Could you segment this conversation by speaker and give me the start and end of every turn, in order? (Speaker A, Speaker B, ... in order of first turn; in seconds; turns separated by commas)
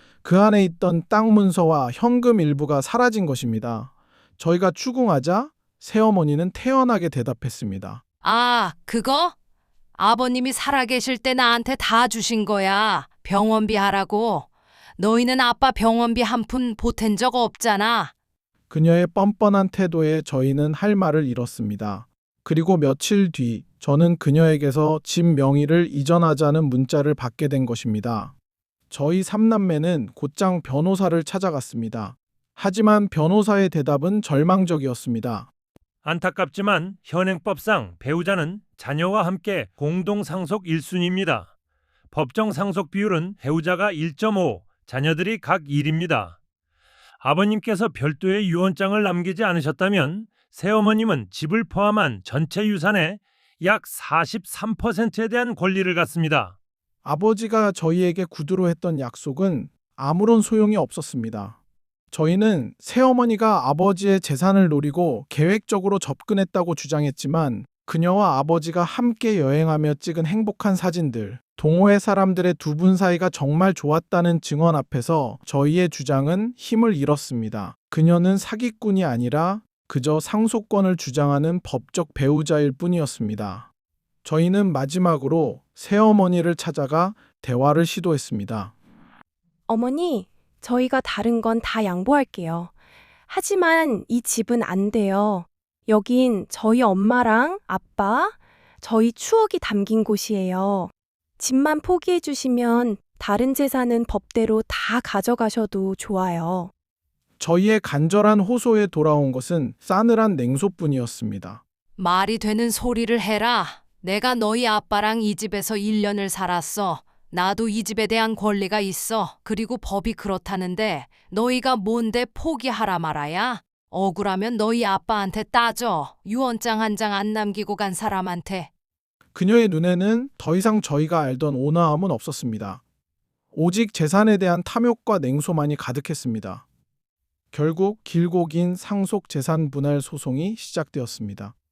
Speaker A: 0.2-8.0, Speaker B: 8.2-9.3, Speaker B: 10.0-18.1, Speaker A: 18.7-28.3, Speaker A: 28.9-35.5, Speaker C: 36.0-41.5, Speaker C: 42.1-46.4, Speaker C: 47.2-56.5, Speaker A: 57.0-61.6, Speaker A: 62.1-83.7, Speaker A: 84.2-88.7, Speaker D: 89.7-92.7, Speaker D: 93.3-106.7, Speaker A: 107.4-111.6, Speaker B: 112.0-128.7, Speaker A: 129.3-132.8, Speaker A: 133.5-136.6, Speaker A: 137.5-141.5